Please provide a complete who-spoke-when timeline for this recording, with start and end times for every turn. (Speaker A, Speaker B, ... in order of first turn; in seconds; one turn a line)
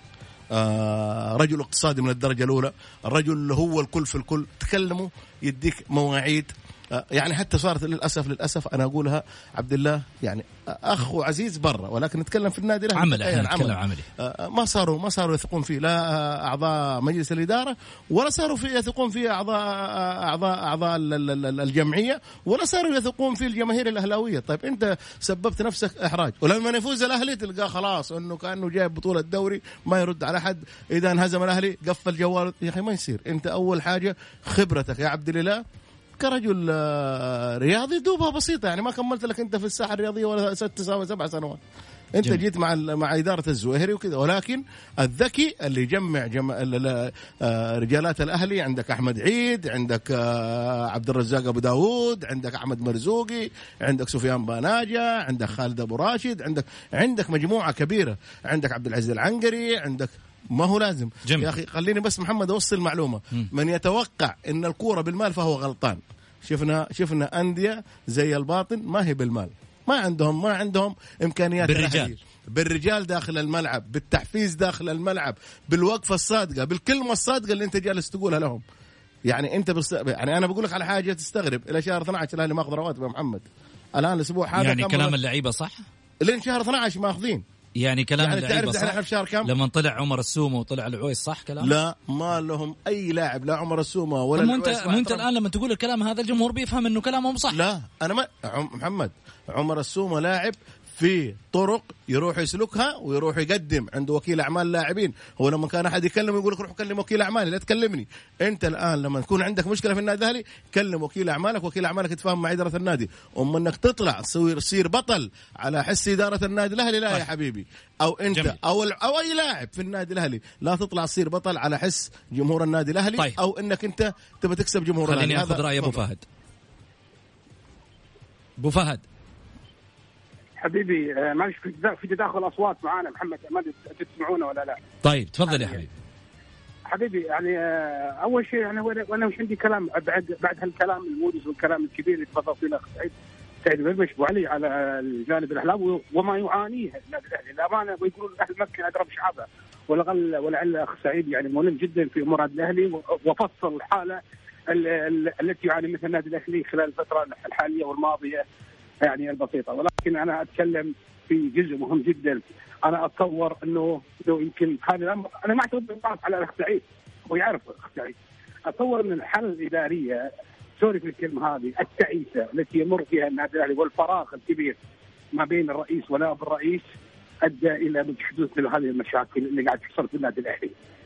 Speaker A: 0.5-35.6
Speaker B: 12.9-14.1
Speaker A: 36.2-41.6
Speaker A: 42.1-78.6
Speaker B: 61.2-61.5
Speaker B: 71.6-72.1
Speaker A: 79.3-83.4
Speaker A: 84.0-85.1
Speaker B: 84.6-85.8
Speaker A: 86.2-87.4
Speaker B: 87.8-91.7
Speaker A: 88.2-89.5
Speaker A: 91.6-95.2
Speaker B: 94.3-97.6
Speaker A: 97.5-126.0
Speaker B: 125.0-126.2
Speaker B: 128.6-129.0
Speaker C: 130.6-134.8
Speaker B: 135.0-135.9
Speaker C: 135.5-135.8
Speaker C: 136.9-158.4
Speaker C: 159.0-170.2
Speaker C: 170.8-174.8
Speaker C: 175.3-176.8
Speaker C: 177.4-180.7